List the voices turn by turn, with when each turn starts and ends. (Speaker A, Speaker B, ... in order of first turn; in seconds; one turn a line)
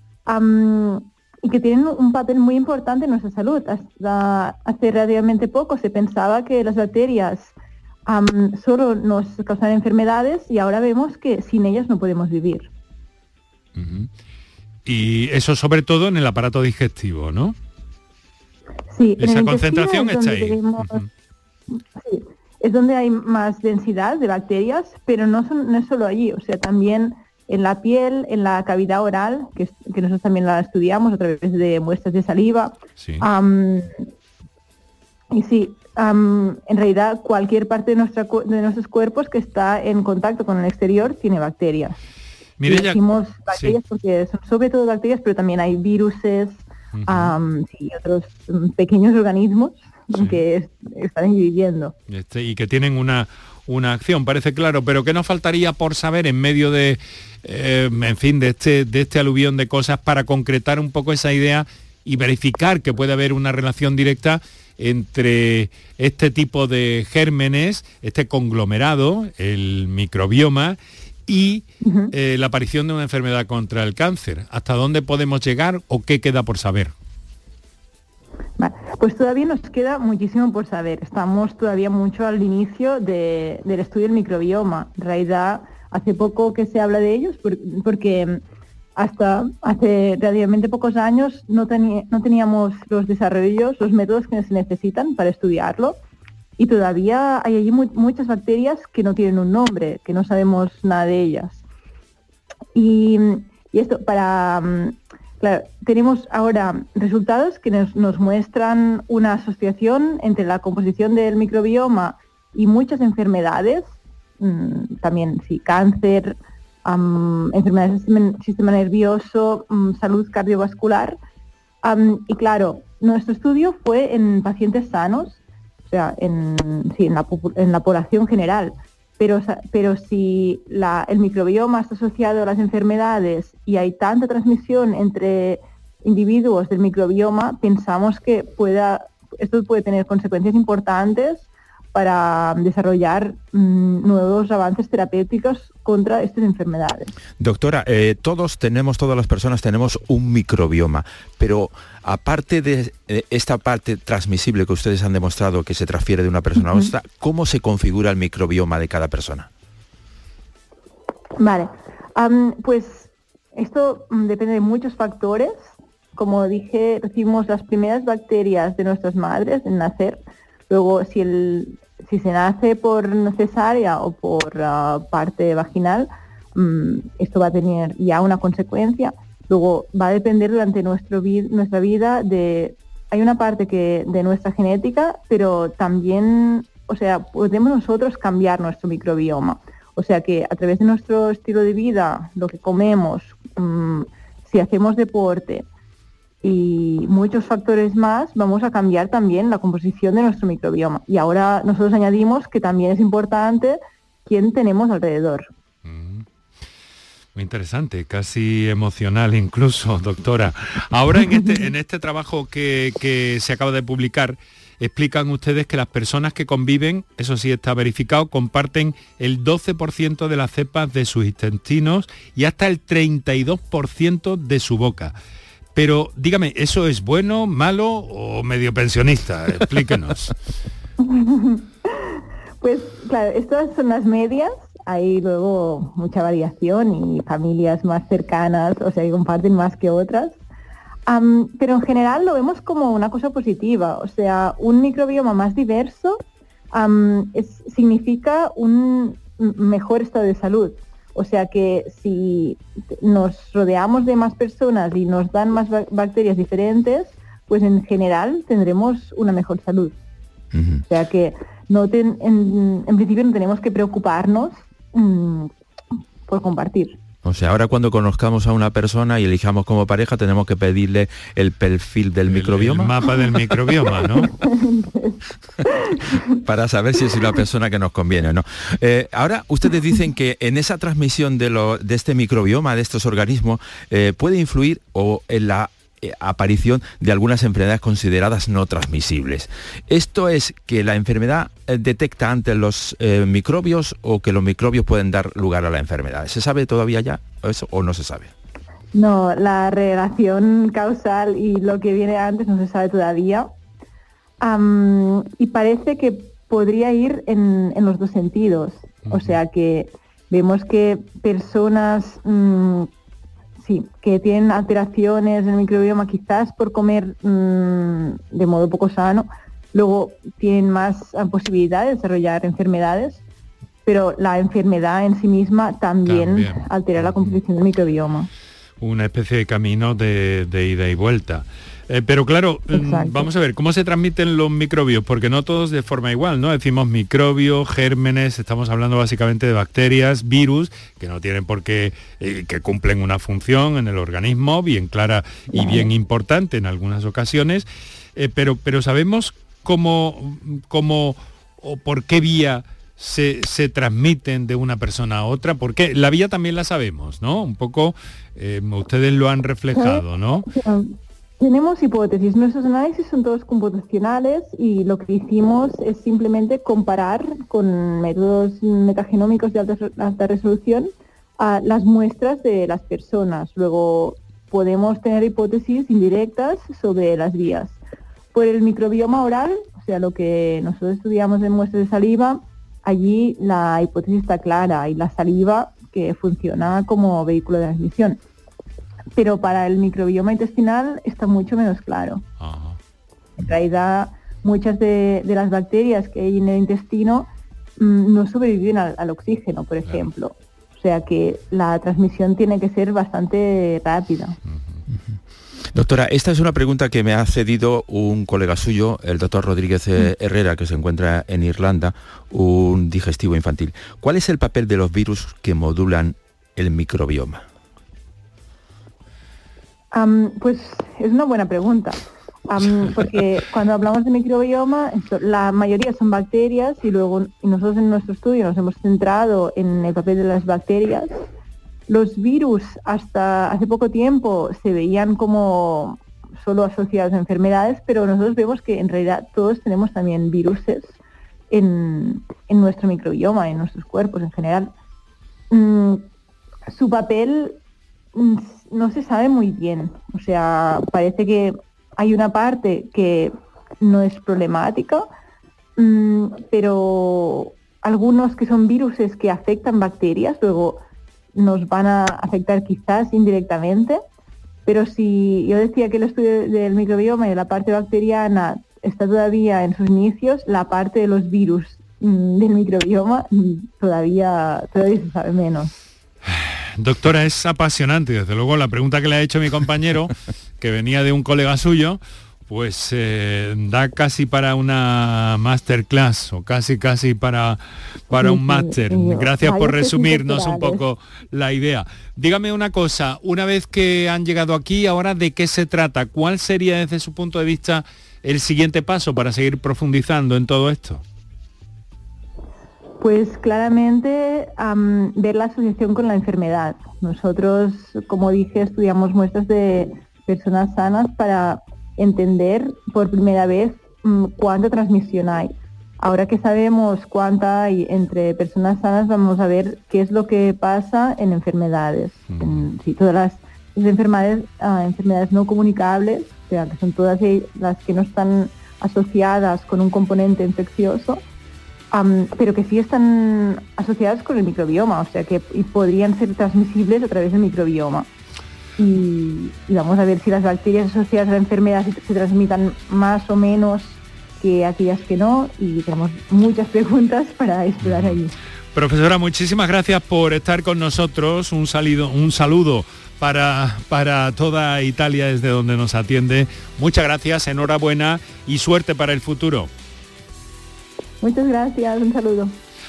Speaker A: 0.2-7.5
Speaker A: 8.1-12.7
Speaker B: 13.7-14.1
Speaker B: 14.8-17.6
Speaker A: 18.9-21.0
Speaker B: 19.2-21.1
Speaker A: 22.0-34.0
Speaker B: 33.0-33.3
Speaker A: 35.3-42.0
Speaker B: 42.6-43.8
Speaker A: 42.7-51.9
Speaker B: 46.9-47.3
Speaker B: 50.1-50.4
Speaker B: 52.1-76.9
Speaker A: 71.8-72.1
Speaker A: 78.6-88.4
Speaker A: 89.0-96.0
Speaker A: 96.6-101.6
Speaker A: 102.7-121.2
Speaker A: 121.8-147.1
Speaker C: 147.4-159.5
Speaker A: 161.4-195.7
Speaker A: 196.4-205.5
Speaker B: 205.8-206.2
Speaker B: 207.3-225.1
Speaker B: 225.7-230.3
Speaker A: 231.0-240.4
Speaker A: 241.1-246.2
Speaker A: 246.7-259.9
Speaker C: 260.5-260.8
Speaker A: 260.9-265.5
Speaker A: 266.3-267.0
Speaker C: 267.2-272.9
Speaker B: 272.3-274.4
Speaker A: 274.4-276.2
Speaker C: 276.4-298.3
Speaker A: 298.9-303.5
Speaker A: 304.4-312.9
Speaker B: 309.1-309.4
Speaker A: 313.6-323.2
Speaker A: 323.9-328.3
Speaker B: 326.1-327.4
Speaker B: 328.8-360.5
Speaker A: 332.7-333.3
Speaker A: 345.5-345.9
Speaker A: 359.7-377.8
Speaker A: 378.3-388.2
Speaker A: 389.1-392.2
Speaker B: 392.4-392.8
Speaker A: 393.4-404.4
Speaker B: 404.5-404.8
Speaker C: 404.9-405.2
Speaker C: 405.7-417.4
Speaker A: 419.9-431.1
Speaker A: 431.9-440.9
Speaker A: 441.5-444.7
Speaker A: 445.5-446.1
Speaker A: 446.7-447.6
Speaker A: 448.1-455.1
Speaker A: 455.8-460.8
Speaker A: 461.3-464.0
Speaker A: 464.6-475.7
Speaker B: 476.2-501.0
Speaker A: 488.1-490.8
Speaker A: 503.0-531.2
Speaker B: 522.3-522.7
Speaker A: 531.9-538.1
Speaker A: 538.8-548.4
Speaker B: 547.8-548.2
Speaker B: 548.7-559.7
Speaker A: 561.2-562.5